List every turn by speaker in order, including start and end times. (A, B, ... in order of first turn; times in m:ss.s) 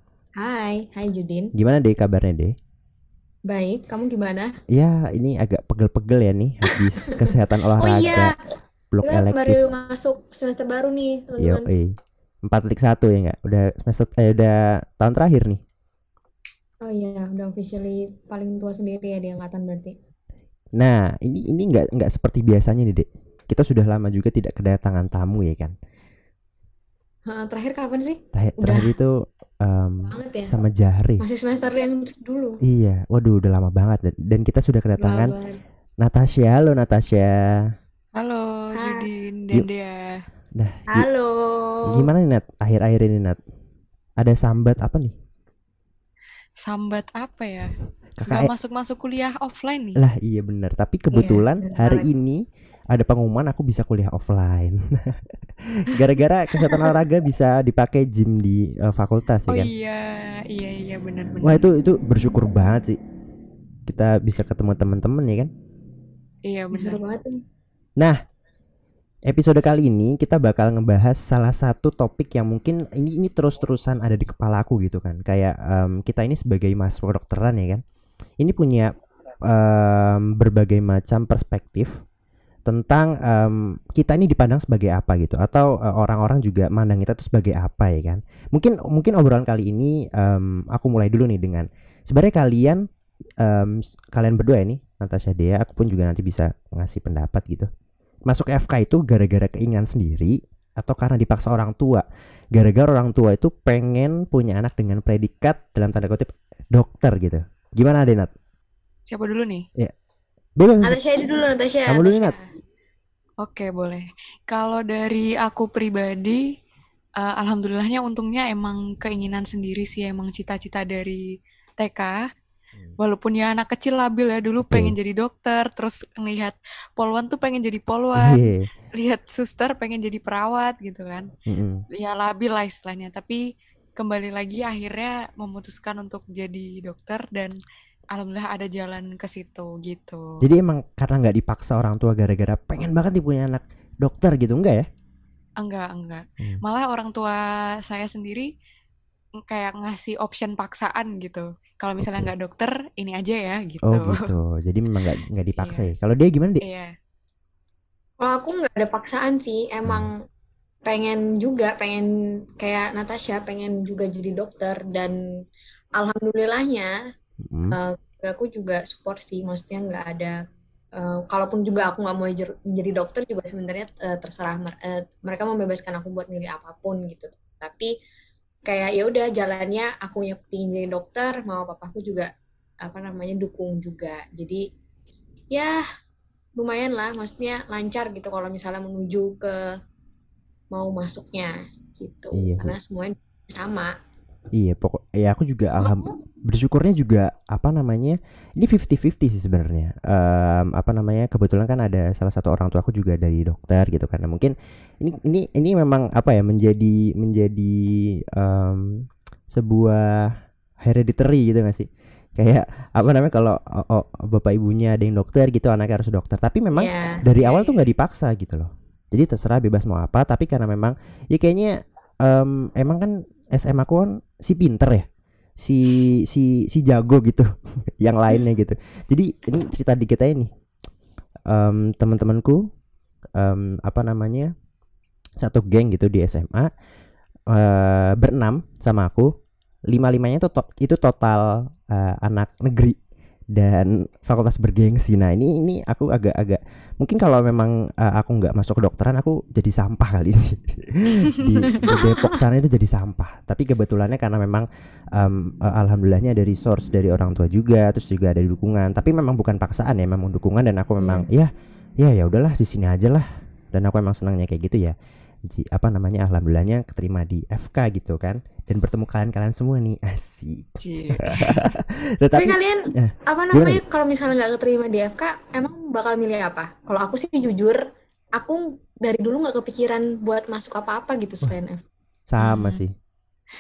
0:00.4-0:01.5 A
0:01.5-0:02.6 B
0:03.5-0:04.5 A
0:04.7-0:08.3 B
0:06.7-0:08.3 A
0:08.9-0:09.6 B
0:09.0-0:11.7 A
0:11.4-0:15.6 B
0:16.8-0:20.0 A
0:20.8-0:25.7 B
0:27.3-0:28.9 A
0:28.3-0:31.2 B
0:30.0-0:30.5 A
0:31.2-0:32.6 A
0:32.6-0:35.3 B
0:35.0-0:35.6 A
0:36.0-0:37.6 B
0:38.2-0:40.2 C
0:38.7-0:39.1 A
0:40.5-0:41.1 B
0:40.9-0:42.1 A
0:41.9-0:43.4 B
0:44.2-0:45.1 B
0:46.6-0:47.8 C
0:48.2-0:48.5 B
0:48.3-0:50.0 C
0:50.0-0:59.7 B
0:51.1-0:52.1 A
0:59.5-1:01.6 C
1:01.4-1:03.0 B
1:03.9-1:05.5 B
1:06.4-1:07.0 C
1:06.7-1:07.4 A
1:09.2-1:17.8 B
1:18.4-1:18.9 B
1:19.4-1:21.9 B
1:22.6-1:32.8 B
1:33.4-1:37.7 B
1:38.3-1:48.3 B
1:49.1-1:49.7 C
1:50.6-1:51.0 B
1:50.8-1:52.4 A
1:51.9-1:52.3 B
1:53.4-1:56.4 C
1:57.2-2:01.2 C
2:01.8-2:02.2 C
2:03.0-2:08.4 C
2:04.6-2:04.9 B
2:08.1-2:08.7 B
2:09.0-2:11.3 C
2:11.5-2:11.8 B
2:11.9-2:13.4 C
2:14.0-2:17.6 C
2:18.1-2:20.4 C
2:20.4-2:24.9 B
2:25.6-2:28.5 C
2:29.4-2:34.3 C
2:32.0-2:32.3 B
2:33.8-2:36.6 B
2:35.6-2:35.9 C
2:36.6-2:36.9 C
2:38.2-2:40.2 A
2:39.8-2:40.1 B
2:40.8-2:42.1 A
2:42.6-2:45.2 A
2:46.0-2:46.9 A
2:47.4-2:47.8 B
2:47.7-2:50.4 A
2:51.0-2:57.9 A
2:58.6-3:02.3 A
3:02.8-3:04.6 A
3:05.5-3:05.8 A
3:06.6-3:09.6 A
3:10.7-3:13.9 A
3:12.3-3:12.8 B
3:14.5-3:45.1 B
3:15.8-3:16.2 A
3:36.7-3:37.2 A
3:37.3-3:37.9 C
3:45.6-3:50.5 B
3:51.5-3:52.6 B
3:53.4-3:54.5 B
3:55.4-3:56.7 B
3:57.5-3:59.3 B
3:59.9-4:03.0 B
4:03.5-4:24.9 B
4:11.9-4:12.3 A
4:21.0-4:21.3 A
4:25.5-4:33.8 B
4:30.8-4:31.7 C
4:32.3-4:37.8 A
4:38.4-4:41.8 A
4:42.3-4:42.9 B
4:42.4-4:42.8 C